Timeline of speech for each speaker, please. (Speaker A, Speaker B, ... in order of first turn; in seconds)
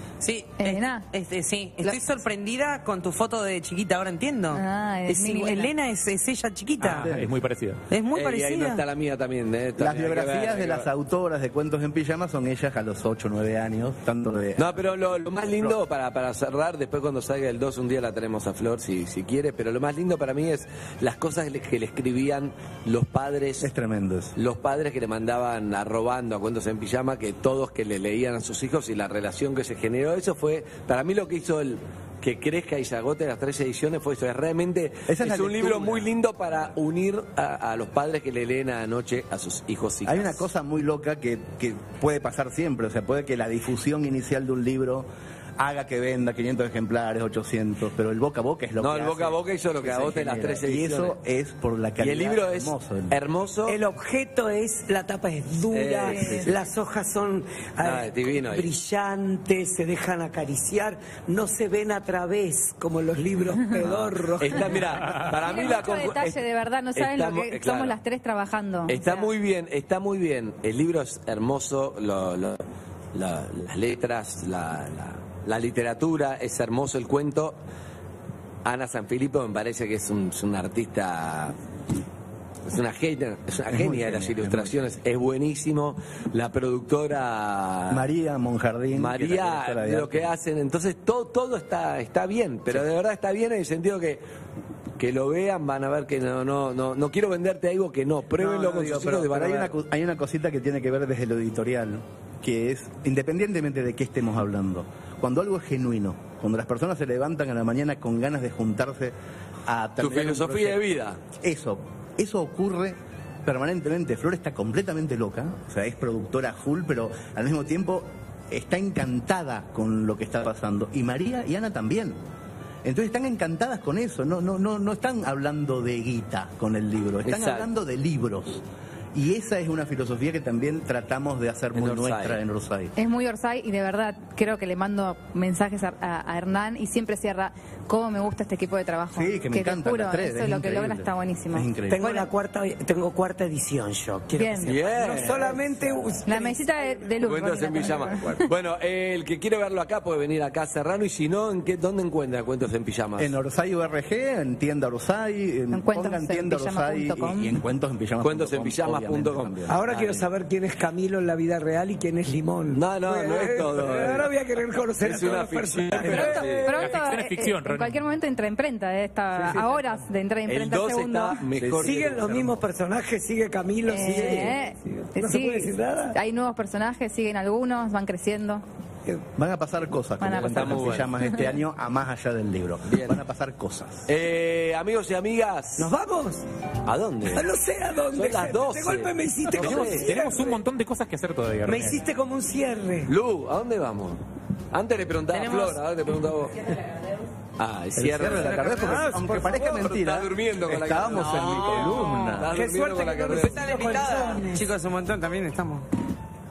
Speaker A: 0.2-7.0, 7.9-8.8, 195.3-195.8, 201.3-202.4, 203.5-205.9
Speaker B: 0.6-1.1, 4.5-5.8, 65.2-69.3, 133.0-141.7, 144.3-144.8, 146.3-148.5, 155.7-157.6, 166.1-171.4, 173.9-178.6, 180.2-180.8
Speaker C: 6.8-7.8, 166.2-168.1, 189.6-192.0
Speaker D: 6.8-7.3, 9.8-14.8, 23.6-24.4, 35.1-36.1, 40.0-53.1, 83.7-84.9, 87.9-90.3, 98.3-109.1, 109.7-110.9, 111.4-122.2, 122.8-128.6, 129.1-132.9, 139.1-142.1, 153.2-159.8, 169.3-170.0, 171.6-172.0, 174.2-174.4, 179.4-184.1, 198.0-202.5
Speaker E: 8.1-10.9, 14.6-23.7, 24.4-40.5, 48.8-51.2, 52.0-53.8, 55.7-56.6, 57.8-58.7, 63.8-66.4, 67.0-68.0, 68.9-72.6, 73.1-77.6, 78.7-81.6, 82.7-88.0, 88.9-94.2, 95.0-99.7, 110.0-111.2, 127.2-127.7, 131.7-132.4, 144.6-145.6, 147.2-153.3, 158.2-160.2, 162.7-164.3, 165.0-166.8, 170.5-172.6, 180.4-181.2, 182.9-183.2, 184.1-185.9, 186.8-187.5, 188.1-190.3, 193.1-194.2, 194.7-196.6, 197.6-204.1
Speaker F: 53.7-65.4, 141.9-147.1, 147.7-148.1, 159.7-166.7, 171.8-176.2, 185.8-186.5, 187.3-190.6, 191.6-193.1, 198.8-199.6, 201.6-204.7